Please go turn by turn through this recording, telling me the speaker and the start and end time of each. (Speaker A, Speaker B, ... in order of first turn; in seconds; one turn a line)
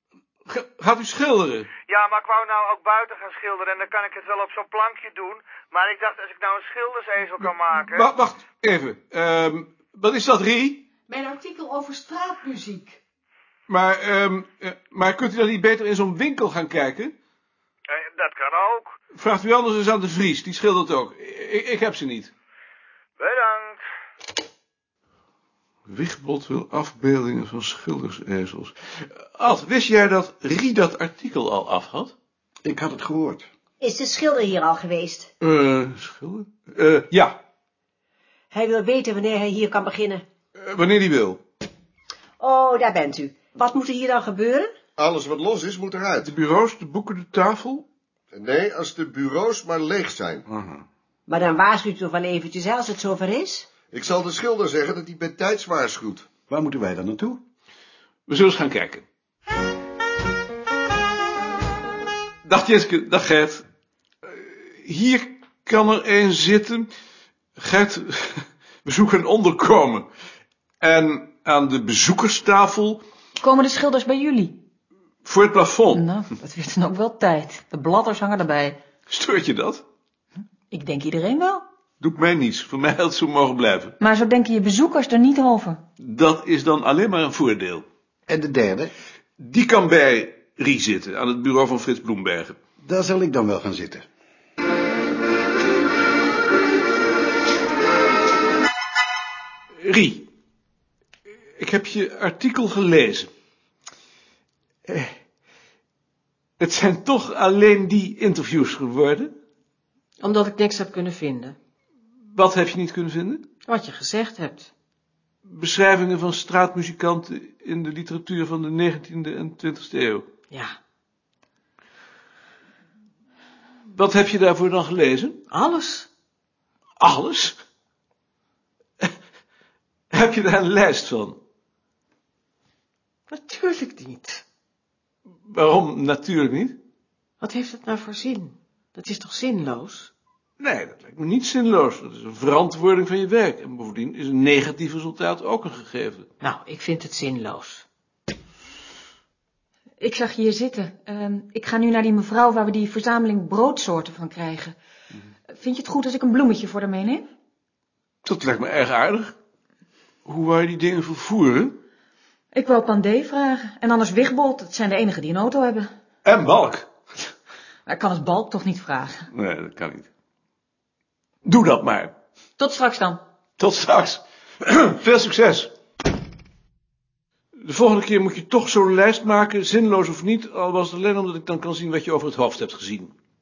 Speaker A: 0.5-1.7
Speaker B: 1.9-8.1
Speaker A: 7.4-10.8
Speaker C: 11.1-13.0
Speaker A: 13.7-17.1
Speaker B: 17.9-18.9
Speaker A: 19.1-22.3
Speaker B: 23.2-23.8
Speaker A: 25.9-32.1
Speaker D: 32.6-33.5
Speaker E: 33.8-35.3
Speaker A: 35.4-37.4
Speaker E: 38.5-40.2
Speaker A: 40.6-41.4
Speaker E: 42.4-44.7
Speaker F: 45.0-46.3
Speaker A: 46.2-47.9
Speaker F: 48.3-50.4
Speaker A: 50.5-50.8
Speaker E: 51.3-53.7
Speaker F: 53.9-56.3
Speaker D: 56.5-57.4
Speaker A: 58.3-59.0
Speaker A: 62.5-63.6
Speaker A: 64.3-66.9
Speaker A: 67.6-70.1
Speaker A: 70.8-73.0
Speaker G: 73.4-74.6
Speaker A: 75.2-76.1
Speaker G: 75.9-78.8
Speaker A: 79.1-79.8
Speaker G: 80.7-81.6
Speaker A: 82.0-84.0
Speaker G: 84.0-85.8
Speaker A: 86.0-87.9
Speaker D: 88.3-88.9
Speaker A: 89.4-92.6
Speaker D: 92.8-94.1
Speaker A: 99.8-100.3
Speaker A: 101.6-103.3
Speaker A: 104.9-105.2
Speaker A: 106.6-109.3
Speaker C: 110.2-111.6
Speaker A: 112.3-113.4
Speaker C: 113.7-114.7
Speaker A: 115.5-120.3
Speaker C: 120.5-120.8
Speaker A: 123.9-125.4
Speaker C: 125.5-126.1
Speaker A: 127.0-127.6
Speaker A: 130.1-131.4
Speaker C: 133.3-134.4
Speaker A: 135.5-136.8
Speaker C: 137.4-140.1
Speaker A: 140.6-146.3
Speaker C: 146.4-147.8
Speaker G: 150.0-154.8
Speaker G: 155.5-157.3
Speaker A: 158.2-159.3
Speaker A: 160.2-161.8
Speaker G: 162.5-165.9
Speaker A: 166.2-166.9
Speaker G: 167.9-169.3
Speaker A: 169.3-170.1
Speaker A: 171.4-172.1
Speaker G: 172.6-173.2
Speaker A: 173.6-175.7
Speaker A: 177.6-183.1